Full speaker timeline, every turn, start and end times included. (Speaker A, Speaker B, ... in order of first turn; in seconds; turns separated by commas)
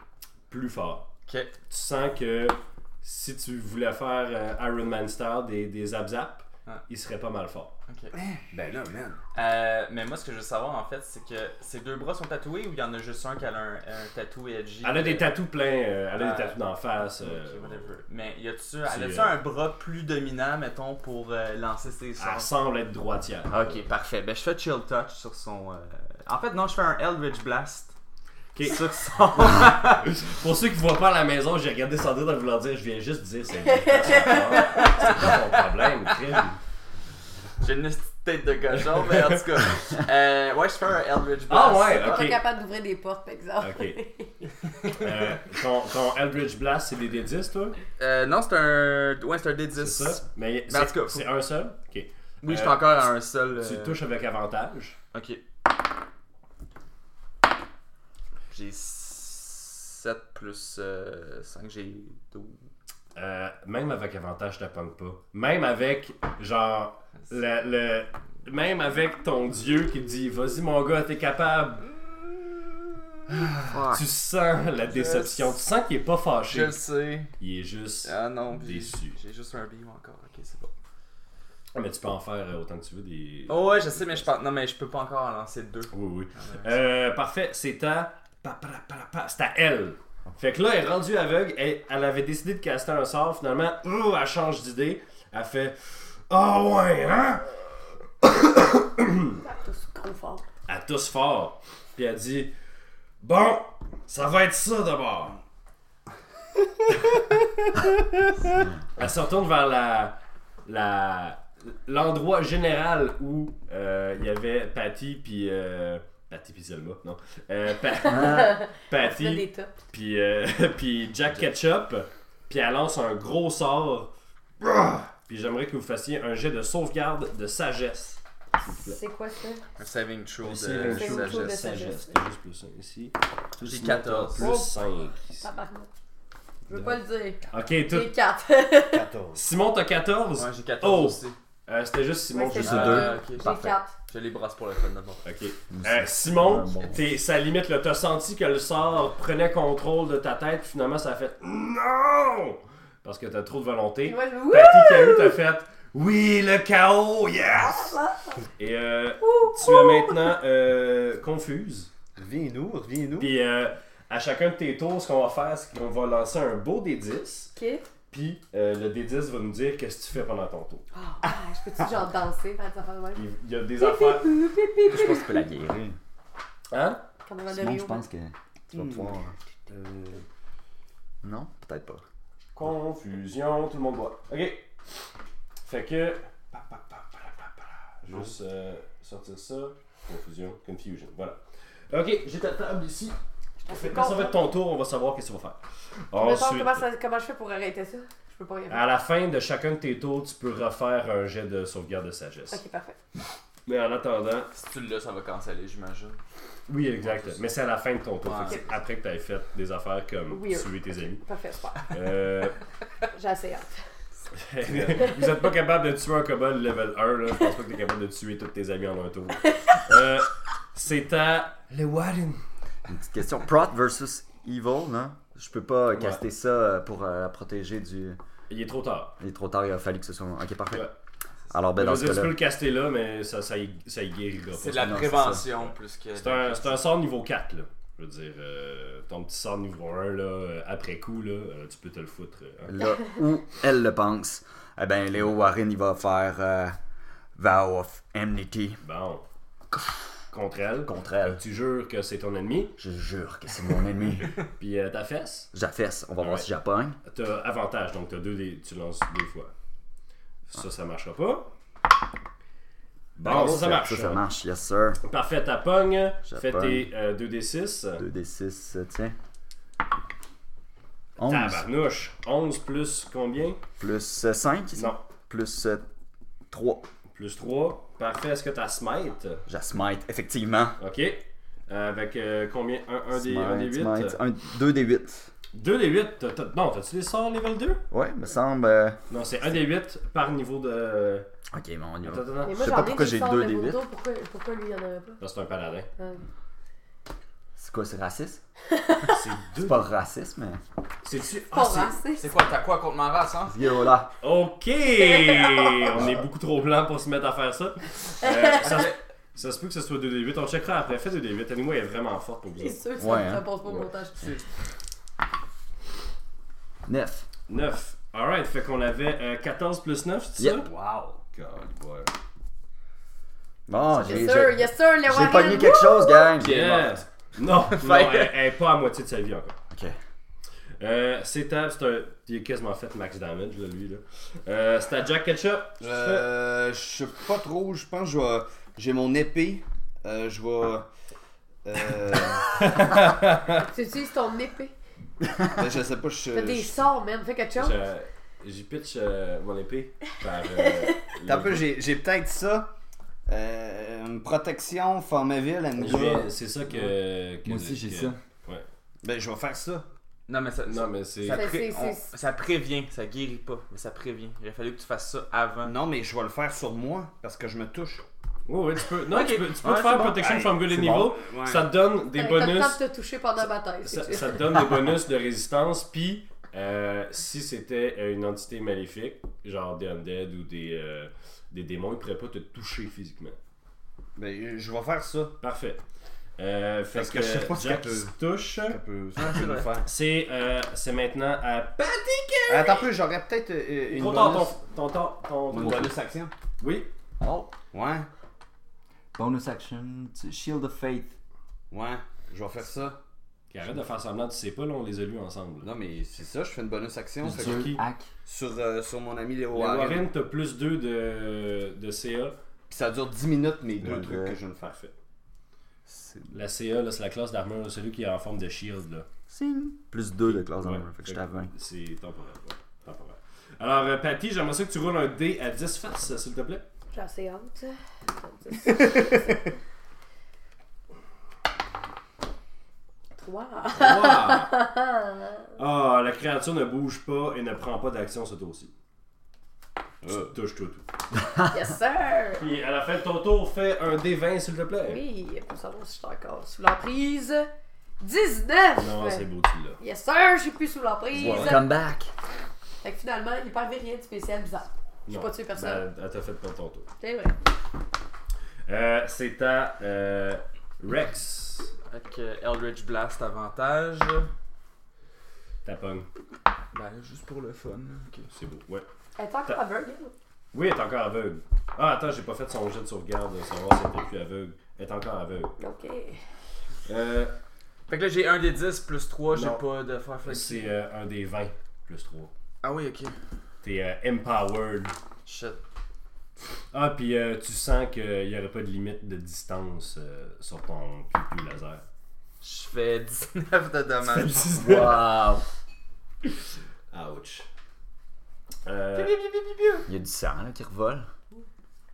Speaker A: 0.5-1.1, Speaker B: 1.3-1.5, Speaker A: 1.7-7.7, Speaker B: 7.9-8.1, Speaker C: 8.1-9.2, Speaker B: 9.3-15.3, Speaker A: 14.8-17.9, Speaker B: 16.1-22.5, Speaker A: 18.9-19.3, Speaker A: 22.2-23.9, Speaker B: 23.5-27.9, Speaker A: 28.5-36.6, Speaker B: 28.6-30.1, Speaker D: 33.6-35.1, Speaker B: 34.9-35.3, Speaker B: 37.6-42.2, Speaker A: 41.5-42.4, Speaker D: 41.9-44.5, Speaker A: 43.6-44.0, Speaker A: 44.9-47.8, Speaker B: 48.0-51.3, Speaker A: 49.8-53.1, Speaker B: 52.4-54.0, Speaker A: 53.6-55.0, Speaker B: 55.1-55.4, Speaker B: 58.5-62.6, Speaker A: 63.1-72.1, Speaker A: 73.3-76.8, Speaker E: 73.7-74.0, Speaker B: 74.8-75.6, Speaker B: 76.5-77.3, Speaker A: 77.4-79.2, Speaker B: 78.0-80.7, Speaker A: 81.7-84.3, Speaker B: 83.5-86.6, Speaker A: 85.9-97.7, Speaker A: 98.2-99.4, Speaker D: 99.4-100.5, Speaker A: 100.7-102.5, Speaker A: 103.2-105.4, Speaker A: 106.9-107.4, Speaker A: 108.3-129.0, Speaker D: 118.0-119.7, Speaker D: 128.6-129.6, Speaker B: 129.8-131.6, Speaker A: 130.4-135.4, Speaker D: 130.8-132.2, Speaker B: 133.6-134.6, Speaker D: 134.4-135.9, Speaker D: 136.7-139.1, Speaker A: 136.7-138.1, Speaker C: 138.9-139.4, Speaker A: 139.3-143.1, Speaker B: 140.3-141.3, Speaker D: 142.3-143.9, Speaker E: 142.5-143.7, Speaker B: 142.6-145.2, Speaker A: 145.2-158.0, Speaker E: 145.7-147.0, Speaker D: 154.1-155.4, Speaker D: 157.6-158.4, Speaker A: 158.6-161.9, Speaker D: 159.2-160.2, Speaker C: 162.1-163.3, Speaker A: 163.2-167.5, Speaker D: 167.6-167.9, Speaker A: 168.1-170.8, Speaker D: 170.9-173.2, Speaker A: 173.1-174.3, Speaker D: 173.8-175.4, Speaker E: 174.9-176.0, Speaker A: 176.7-177.0, Speaker D: 177.2-178.0, Speaker E: 177.5-179.3, Speaker C: 178.7-180.2, Speaker E: 181.2-182.0, Speaker A: 182.5-184.7, Speaker A: 185.6-196.8, Speaker D: 193.6-194.5, Speaker D: 196.1-198.8, Speaker A: 198.7-202.6, Speaker D: 202.5-203.0, Speaker A: 203.7-204.5, Speaker B: 204.5-206.2, Speaker A: 206.7-211.2, Speaker B: 207.0-207.4, Speaker B: 208.2-208.7, Speaker D: 210.3-211.9, Speaker A: 211.9-212.6, Speaker D: 213.1-213.8, Speaker A: 214.4-222.4, Speaker E: 222.9-228.2, Speaker A: 225.9-226.2, Speaker A: 228.5-229.2, Speaker E: 229.2-230.9, Speaker E: 231.5-232.4, Speaker A: 231.7-235.0, Speaker B: 234.5-236.8, Speaker E: 234.8-235.4, Speaker A: 235.5-242.8, Speaker E: 242.7-246.8, Speaker E: 247.3-248.8, Speaker A: 248.8-249.2, Speaker A: 250.3-252.8, Speaker E: 250.8-251.4, Speaker E: 252.8-254.4, Speaker A: 254.6-255.5, Speaker E: 255.5-257.0, Speaker A: 256.2-256.5, Speaker A: 257.0-259.5, Speaker A: 260.5-261.5, Speaker A: 263.2-264.2, Speaker E: 263.2-265.0, Speaker A: 265.0-268.1, Speaker E: 266.3-266.9, Speaker E: 268.0-269.1, Speaker E: 271.2-271.6, Speaker A: 271.2-273.6, Speaker E: 273.8-275.9, Speaker A: 274.7-275.0, Speaker E: 276.5-276.8, Speaker A: 277.1-279.4, Speaker E: 279.5-280.8, Speaker A: 280.8-284.2, Speaker E: 283.1-285.3, Speaker A: 285.5-287.8, Speaker E: 287.9-289.0, Speaker A: 289.1-291.3, Speaker E: 291.5-293.8, Speaker A: 292.0-292.6, Speaker D: 292.4-295.2, Speaker A: 295.2-295.9, Speaker D: 296.0-296.2, Speaker E: 297.6-298.4, Speaker D: 298.7-299.2, Speaker A: 299.1-299.9, Speaker E: 299.6-300.6, Speaker A: 301.0-302.0, Speaker D: 301.5-302.3, Speaker B: 302.2-303.6, Speaker E: 303.5-304.1, Speaker A: 304.2-312.8, Speaker D: 305.0-305.9, Speaker D: 308.2-308.8, Speaker B: 308.6-308.9, Speaker D: 312.6-314.4, Speaker E: 313.0-313.5, Speaker E: 316.9-317.2, Speaker A: 317.5-320.7, Speaker C: 320.6-321.2, Speaker A: 321.3-322.1, Speaker E: 323.7-326.6, Speaker D: 323.9-326.3, Speaker B: 326.4-327.0, Speaker A: 326.4-329.6, Speaker B: 327.6-328.3, Speaker E: 329.7-330.0, Speaker A: 330.8-336.3, Speaker C: 335.8-340.9, Speaker C: 341.6-342.5, Speaker A: 342.6-343.6, Speaker D: 343.7-344.7, Speaker C: 345.5-346.8, Speaker D: 346.3-347.8, Speaker A: 347.6-351.6, Speaker C: 351.2-352.7, Speaker C: 353.3-356.3, Speaker A: 355.8-358.6, Speaker E: 357.4-358.2, Speaker C: 359.0-359.9, Speaker B: 360.3-365.7, Speaker A: 360.7-361.5, Speaker D: 361.3-362.1, Speaker C: 365.6-368.1, Speaker A: 368.5-372.8, Speaker B: 369.1-370.2, Speaker C: 370.1-371.7, Speaker D: 372.1-374.6, Speaker A: 373.8-383.4, Speaker C: 384.1-385.3, Speaker A: 385.4-385.8, Speaker A: 386.4-388.8, Speaker C: 386.9-389.9, Speaker B: 389.2-389.7, Speaker A: 389.8-392.9, Speaker C: 392.5-394.5, Speaker A: 393.9-395.9, Speaker C: 395.5-396.3, Speaker A: 396.6-396.9, Speaker E: 397.2-397.5, Speaker C: 397.7-398.1, Speaker E: 399.1-401.2, Speaker C: 401.7-403.0, Speaker A: 403.5-405.7, Speaker C: 405.6-410.1, Speaker E: 407.2-408.1, Speaker A: 407.3-407.8, Speaker A: 409.5-412.4, Speaker C: 412.7-414.8, Speaker A: 413.8-414.9, Speaker E: 413.9-414.3, Speaker C: 415.9-416.2, Speaker A: 416.3-419.1, Speaker E: 419.3-421.5, Speaker A: 420.2-426.6, Speaker D: 426.9-429.5, Speaker D: 433.2-435.5, Speaker A: 433.7-434.5, Speaker A: 435.6-438.7, Speaker A: 440.1-440.9, Speaker D: 441.5-442.4, Speaker A: 442.4-445.0, Speaker D: 444.8-451.7, Speaker A: 448.8-449.8, Speaker E: 451.1-452.1, Speaker A: 451.2-451.6, Speaker D: 452.8-455.8, Speaker A: 455.1-456.9, Speaker D: 457.0-457.4, Speaker A: 458.7-461.7, Speaker B: 461.9-464.3, Speaker A: 465.6-466.1, Speaker B: 466.7-468.3, Speaker A: 468.3-468.9, Speaker D: 469.2-470.1, Speaker A: 470.5-475.5, Speaker D: 475.6-476.2, Speaker A: 476.8-477.3, Speaker B: 477.9-480.7, Speaker A: 479.3-479.6, Speaker A: 480.2-482.3, Speaker B: 482.6-483.1, Speaker A: 483.6-484.9, Speaker B: 485.2-485.6, Speaker A: 486.7-491.8, Speaker B: 492.4-494.4, Speaker A: 494.0-495.1, Speaker E: 494.5-495.4, Speaker A: 496.9-497.5, Speaker A: 498.6-499.1, Speaker B: 498.9-499.9, Speaker E: 499.9-501.1